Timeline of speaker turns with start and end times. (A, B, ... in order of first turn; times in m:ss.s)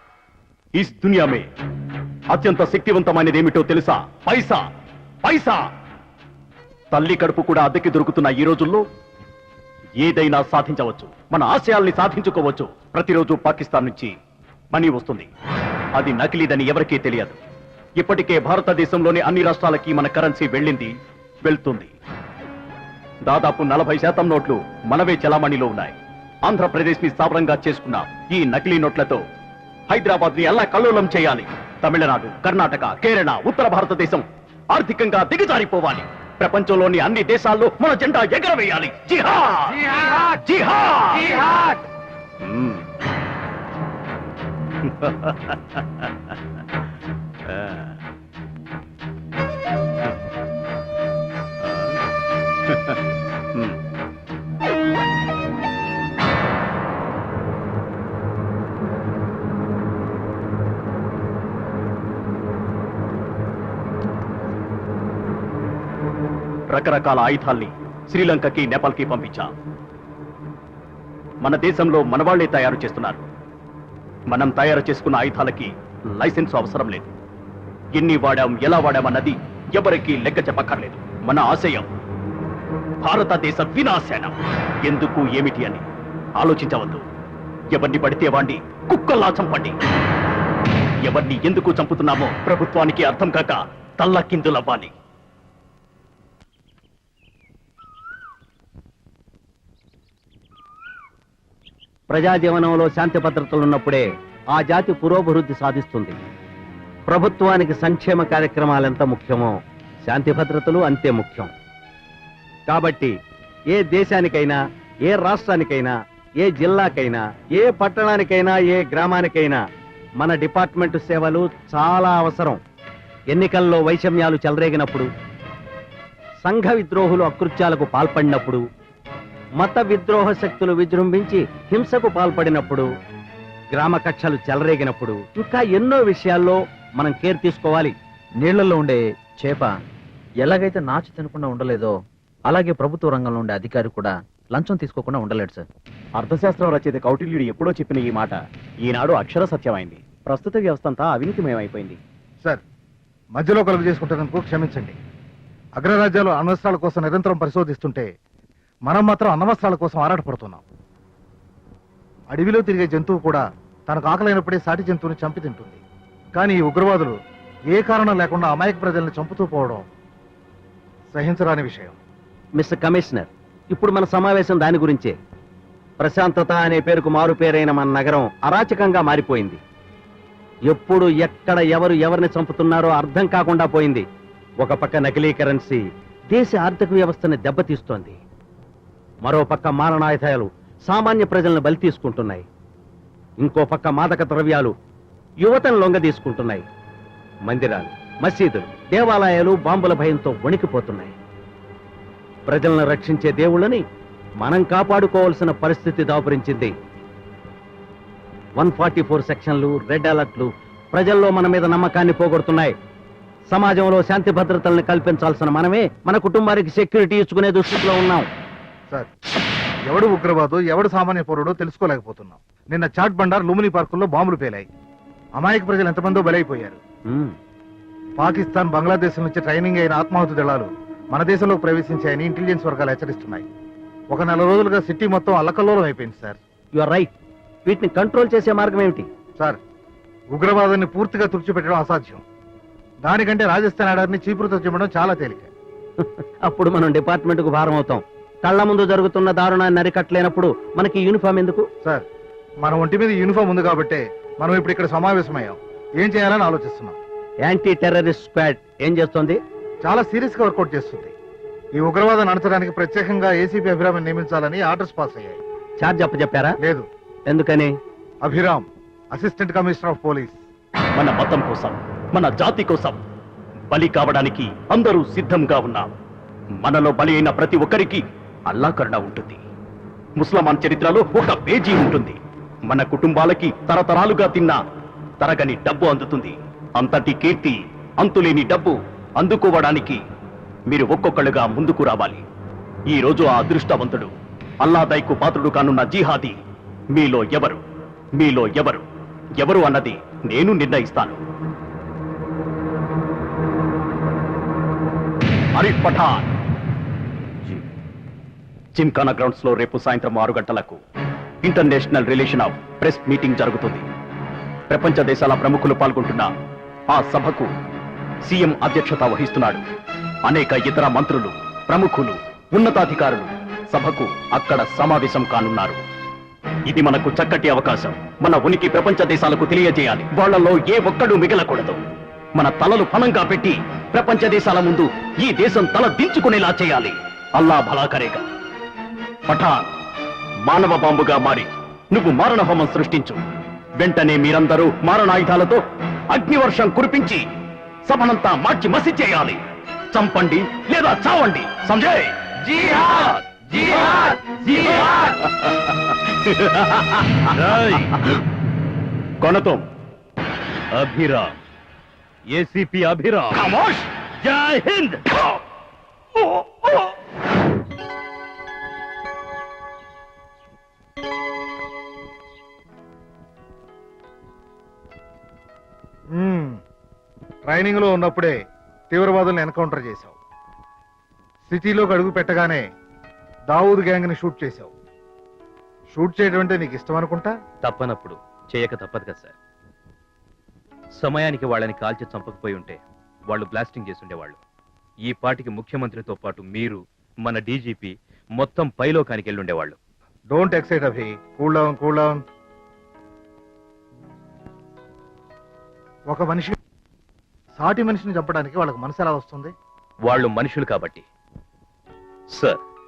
0:00.7-0:01.5 A
0:02.3-0:04.6 A
0:05.2-0:05.6 A
0:06.9-0:08.8 A
0:10.0-0:14.2 A
0:14.7-0:15.3 A
0:16.0-0:17.4 A
0:18.0-0:20.9 A
0:21.4-0:21.9 A
0:23.2-0:29.2 A
0:29.9-0:41.8 A
0:42.5-0:42.8 A
1:06.7-1:09.5 A
1:11.4-1:13.3 A
1:14.3-1:17.1 A
1:18.0-1:21.9 A
1:23.0-1:24.3 A
1:24.8-1:25.8 A
1:26.4-1:27.0 A
1:27.7-1:29.8 A
1:31.0-1:34.9 A
1:42.1-1:46.2 B
1:47.1-1:49.5 B
1:50.1-1:51.5 B
1:52.7-1:53.1 B
1:53.7-1:59.6 B
2:00.2-2:02.6 B
2:03.3-2:05.1 B
2:06.4-2:08.6 B
2:09.6-2:12.9 B
2:13.7-2:17.9 B
2:18.4-2:19.8 C
2:20.4-2:21.9 C
2:22.5-2:25.6 C
2:26.2-2:32.0 A
2:33.4-2:35.0 D
2:35.8-2:38.1 D
2:38.9-2:40.6 D
2:42.3-2:45.8 D
2:46.4-2:47.2 D
2:47.7-2:49.8 D
2:51.1-2:52.0 D
2:52.6-2:55.1 B
2:56.0-2:59.6 B
3:00.7-3:04.0 B
3:04.6-3:05.8 B
3:06.3-3:08.2 B
3:09.2-3:12.4 B
3:13.4-3:14.7 B
3:15.4-3:16.6 B
3:17.5-3:21.1 B
3:22.5-3:23.8 B
3:24.4-3:26.7 B
3:28.6-3:32.7 B
3:33.5-3:38.3 B
3:39.9-3:44.7 D
3:45.4-3:46.8 D
3:47.1-3:47.4 B
3:48.2-3:53.5 D
3:54.1-3:56.4 D
3:56.7-3:57.1 B
3:57.6-3:59.1 B
4:00.3-4:02.2 D
4:03.0-4:05.5 D
4:06.0-4:11.6 B
4:12.6-4:17.0 D
4:17.4-4:19.4 B
4:19.8-4:21.1 D
4:21.8-4:25.4 D
4:25.8-4:26.6 B
4:26.6-4:26.9 D
4:27.3-4:27.7 B
4:28.2-4:30.4 D
4:31.0-4:33.0 A
4:33.7-4:36.0 A
4:36.6-4:39.4 A
4:40.2-4:44.6 A
4:45.2-4:50.0 A
4:50.7-4:52.2 A
4:52.9-4:54.1 A
4:54.6-4:56.4 A
4:56.9-4:57.6 A
4:58.2-4:58.8 A
4:59.4-5:01.2 A
5:05.6-5:06.3 A
5:08.8-5:10.8 A
5:11.4-5:13.8 A
5:14.7-5:16.3 A
5:16.9-5:17.5 A
5:18.2-5:19.6 A
5:20.2-5:25.8 A
5:26.7-5:31.8 A
5:32.4-5:38.2 A
5:39.3-5:39.6 A
5:40.4-5:43.2 A
5:43.8-5:45.6 A
5:46.1-5:47.2 A
5:47.9-5:49.4 A
5:49.9-5:52.9 A
5:52.6-5:53.8 E
5:53.6-5:55.1 A
5:56.3-5:57.2 A
5:57.3-5:58.0 E
5:59.2-5:59.6 A
6:00.7-6:01.4 E
6:02.3-6:03.5 E
6:03.4-6:03.9 A
6:04.2-6:05.4 E
6:06.3-6:06.8 E
6:16.1-6:16.6 D
6:17.4-6:18.4 D
6:18.9-6:20.2 D
6:21.5-6:22.6 D
6:23.5-6:24.7 D
6:25.9-6:27.3 D
6:27.6-6:29.4 E
6:31.0-6:34.4 E
6:35.0-6:39.8 E
6:40.3-6:42.2 D
6:46.1-6:46.6 D
6:47.6-6:49.5 D
6:50.0-6:51.1 E
6:52.3-6:52.6 E